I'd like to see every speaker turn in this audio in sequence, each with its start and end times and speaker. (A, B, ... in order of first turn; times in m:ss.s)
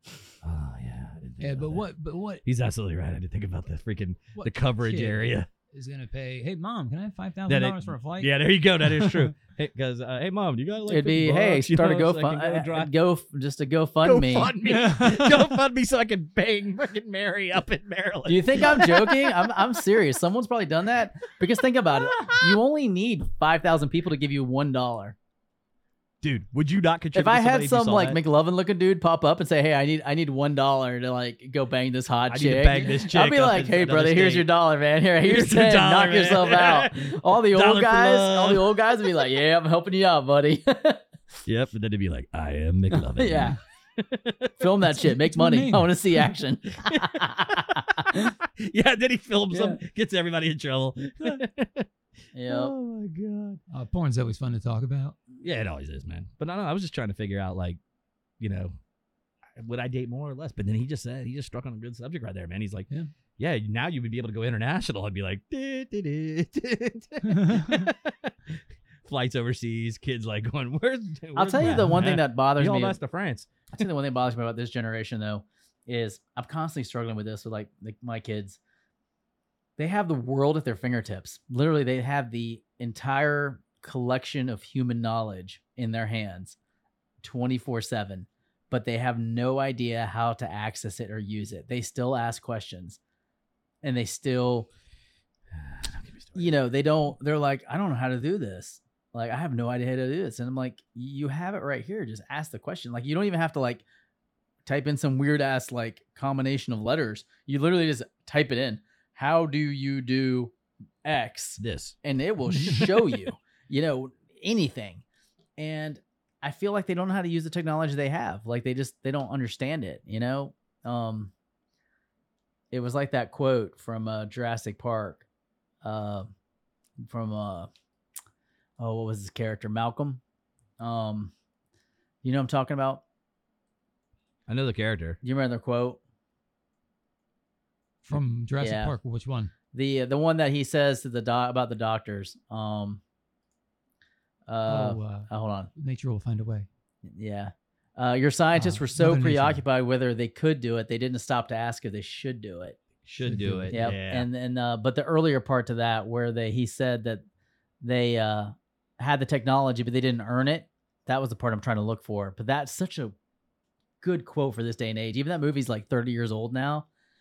0:00.4-0:01.8 A
0:01.4-0:02.4 B
0:02.4-0:05.5 A
0:04.4-0:09.3 B
0:07.5-0:12.9 A
0:10.9-0:14.5 C
0:14.0-0:19.5 A
0:14.6-0:15.6 B
0:18.3-0:25.2 C
0:22.1-0:22.6 A
0:26.2-0:28.2 A
0:27.1-0:41.0 C
0:32.3-0:34.5 A
0:35.2-0:39.1 A
0:41.5-0:44.7 A
0:42.9-0:43.6 C
0:44.6-0:48.4 C
0:45.0-0:46.2 B
0:46.8-0:51.9 A
0:49.5-0:49.8 C
0:52.3-0:52.7 C
0:52.5-0:53.6 A
0:53.7-0:55.2 B
0:55.4-0:57.8 A
0:58.4-0:58.7 A
0:59.6-1:02.9 A
1:03.4-1:13.5 A
1:07.2-1:07.9 B
1:11.4-1:13.0 C
1:11.6-1:12.0 B
1:13.7-1:18.6 C
1:19.8-1:26.6 C
1:27.2-1:33.0 C
1:33.8-1:34.7 C
1:35.5-1:36.5 A
1:36.4-1:43.8 C
1:44.7-1:55.0 C
1:51.6-1:52.0 A
1:55.6-2:01.3 C
2:02.7-2:05.3 C
2:05.8-2:06.3 C
2:07.0-2:07.7 C
2:08.8-2:10.2 C
2:10.8-2:11.3 C
2:12.2-2:13.0 C
2:14.5-2:15.2 A
2:15.2-2:16.0 C
2:18.0-2:19.5 B
2:18.6-2:19.0 C
2:19.7-2:23.0 C
2:24.5-2:25.7 C
2:24.7-2:26.7 B
2:27.0-2:32.8 C
2:28.6-2:29.6 B
2:33.0-2:34.3 A
2:33.2-2:33.9 B
2:33.7-2:37.2 C
2:37.8-2:43.1 C
2:44.0-2:46.9 C